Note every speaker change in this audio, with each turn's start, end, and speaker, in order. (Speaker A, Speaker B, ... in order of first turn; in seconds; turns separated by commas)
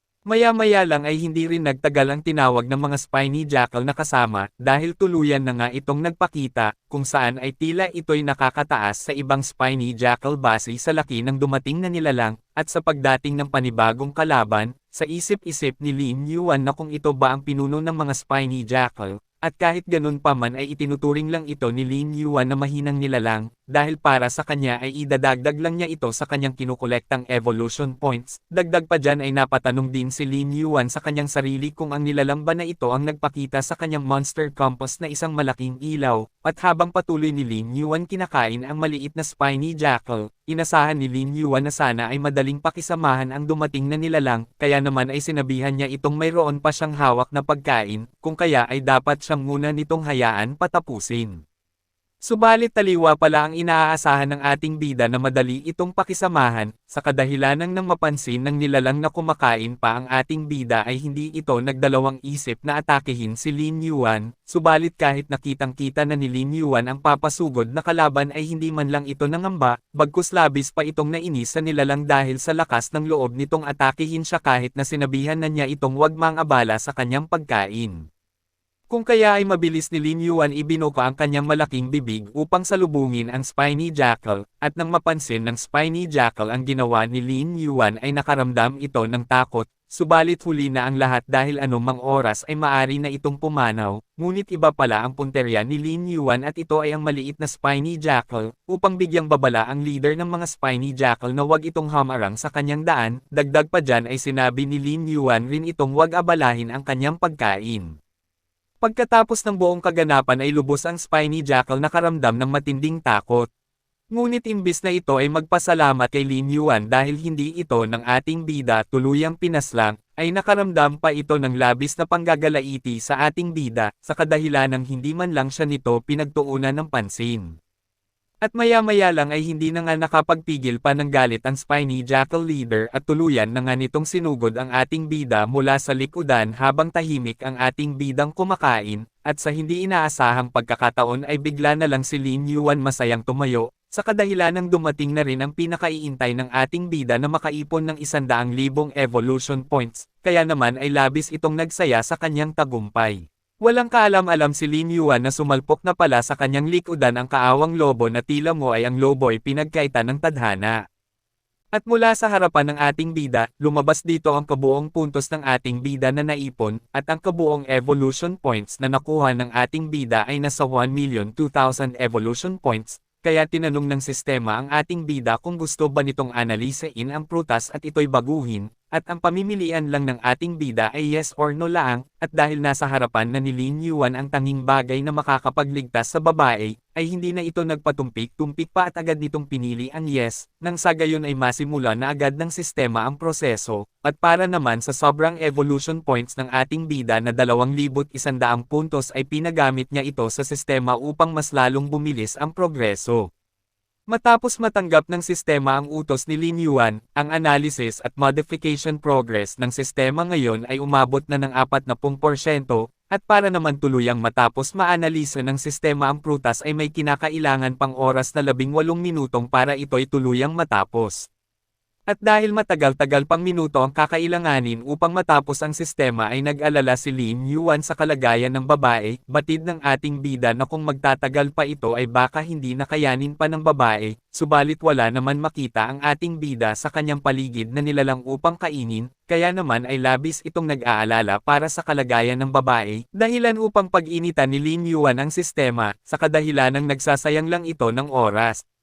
Speaker A: 0.3-51.4, Speaker A: 52.3-78.0, Speaker A: 78.9-107.9, Speaker A: 108.8-113.5, Speaker A: 114.1-127.5, Speaker A: 128.4-160.8, Speaker A: 161.7-203.3, Speaker A: 204.1-221.3, Speaker A: 222.1-248.6